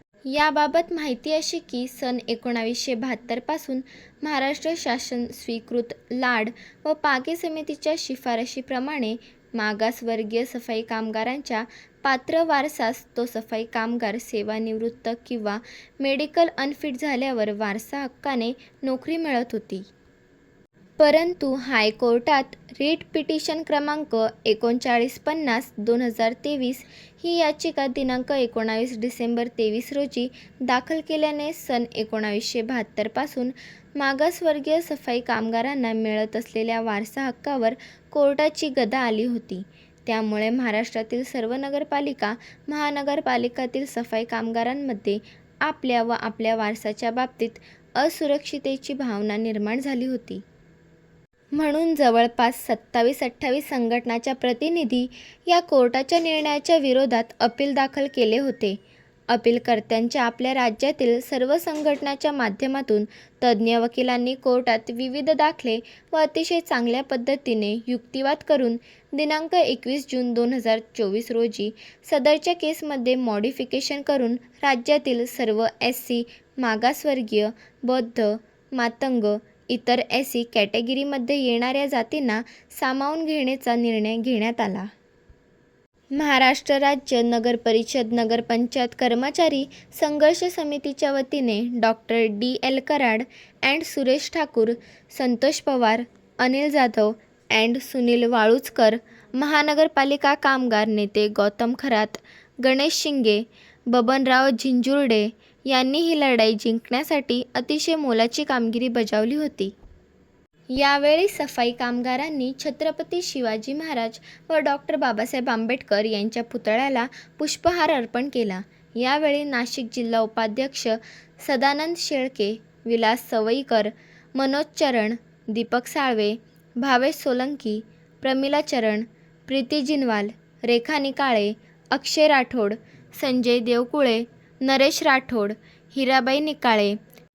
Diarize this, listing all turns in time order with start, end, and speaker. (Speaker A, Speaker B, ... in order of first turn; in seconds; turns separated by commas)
Speaker A: 0.3-19.8, Speaker A: 21.0-50.4, Speaker A: 51.5-58.8, Speaker A: 59.3-84.9, Speaker A: 86.2-109.8, Speaker A: 110.8-137.0